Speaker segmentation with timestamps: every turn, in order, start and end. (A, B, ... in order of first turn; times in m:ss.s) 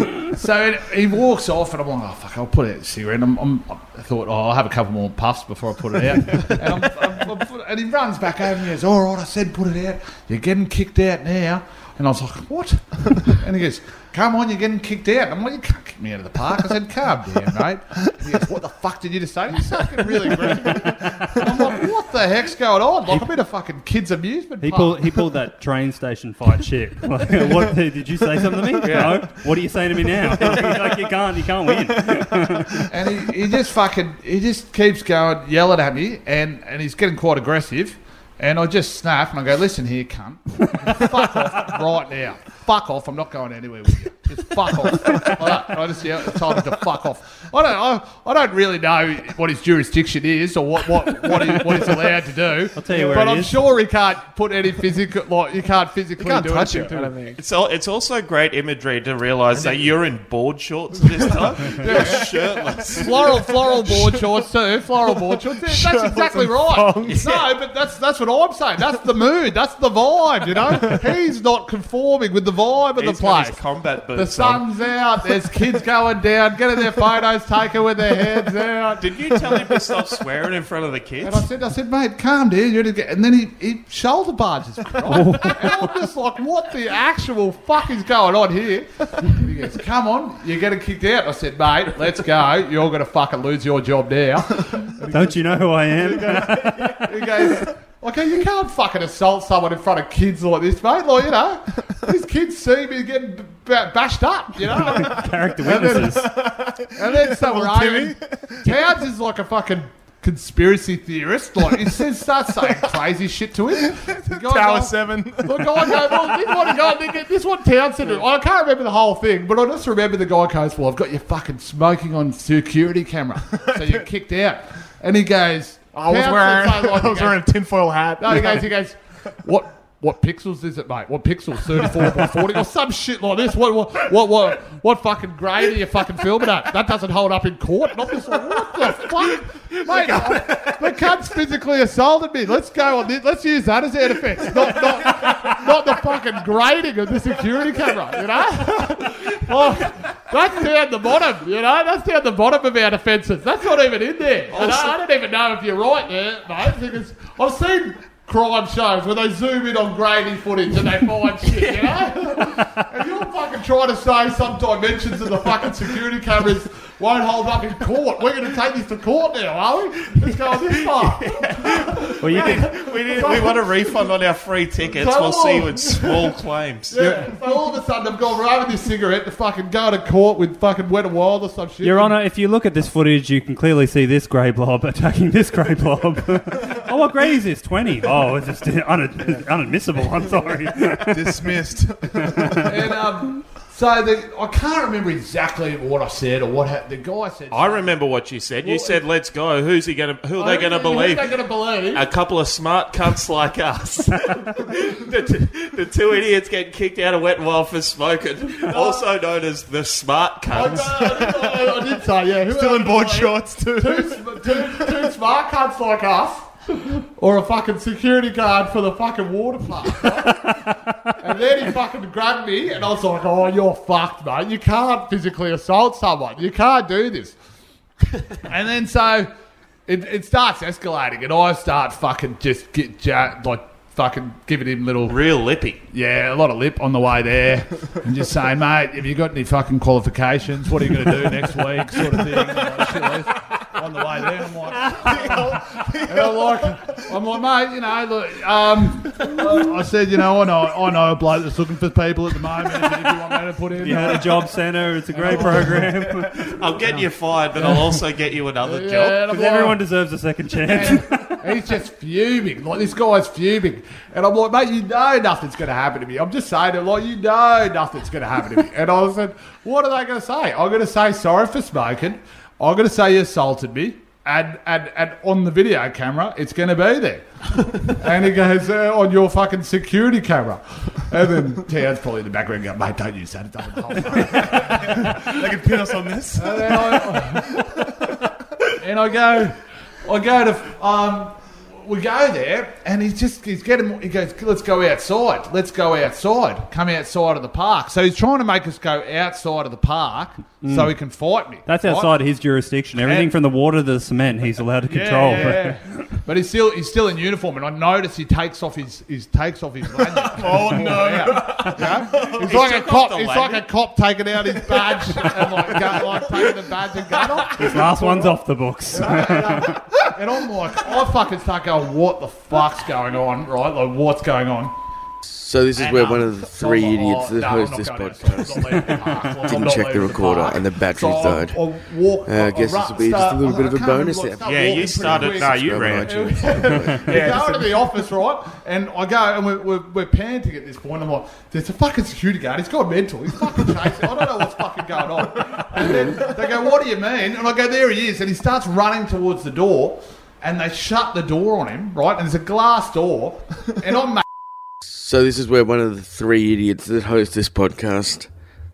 0:00.2-0:25.1 A
0:24.6-0:33.2 B
0:28.8-0:29.3 C
0:30.4-0:30.8 C
0:32.9-0:57.1 A
0:52.7-0:53.6 B
0:53.0-0:53.2 C
0:56.2-0:57.4 C
0:57.3-1:03.1 D
0:59.5-0:59.9 C
1:01.2-1:04.2 C
1:01.8-1:02.3 A
1:02.9-1:13.6 A
1:05.0-1:07.5 C
1:07.0-1:07.4 D
1:12.9-1:14.6 D
1:14.1-1:19.7 A
1:19.0-1:21.5 D
1:21.2-1:46.3 A
1:25.0-1:25.9 B
1:35.1-1:37.0 B
1:36.3-1:36.9 C
1:44.7-1:46.3 B
1:45.0-1:48.7 C
1:47.0-2:07.4 A
1:53.7-1:56.8 C
2:03.5-2:04.0 C
2:05.9-2:08.7 C
2:08.2-2:54.0 A
2:34.5-2:34.9 D
2:41.5-2:42.0 D
2:50.6-2:57.0 D
2:52.2-2:52.7 B
2:54.8-2:56.3 A
2:56.9-3:02.2 A
2:57.0-2:57.4 B
3:01.8-3:11.5 B
3:11.0-3:12.9 C
3:12.6-3:19.0 A
3:17.5-3:31.1 D
3:20.4-3:22.0 A
3:28.6-3:29.1 A
3:30.5-3:40.6 A
3:31.0-3:31.7 C
3:32.4-3:35.1 C
3:41.1-3:47.4 A
3:48.4-3:49.3 A
3:49.9-3:55.2 A
3:55.1-3:55.8 D
3:55.9-4:14.4 A
4:04.9-4:07.1 C
4:13.8-4:16.4 B
4:15.1-4:15.8 A
4:15.3-4:15.9 C
4:16.3-4:19.2 D
4:17.5-4:17.9 A
4:18.6-4:19.8 A
4:19.2-4:21.4 B
4:20.6-4:45.3 A
4:44.3-4:47.8 C
4:46.3-4:47.6 A
4:48.8-5:02.1 A
5:00.6-5:06.0 B
5:03.0-5:03.3 A
5:04.9-5:24.8 A
5:10.3-5:12.1 C
5:11.9-5:13.6 D
5:14.6-5:16.5 C
5:17.5-5:19.8 B
5:25.2-5:31.7 E
5:25.7-5:54.2 A
5:32.2-5:36.9 E
5:34.4-5:36.2 D
5:36.3-5:37.9 C
5:36.8-5:37.2 B
5:54.8-5:58.3 E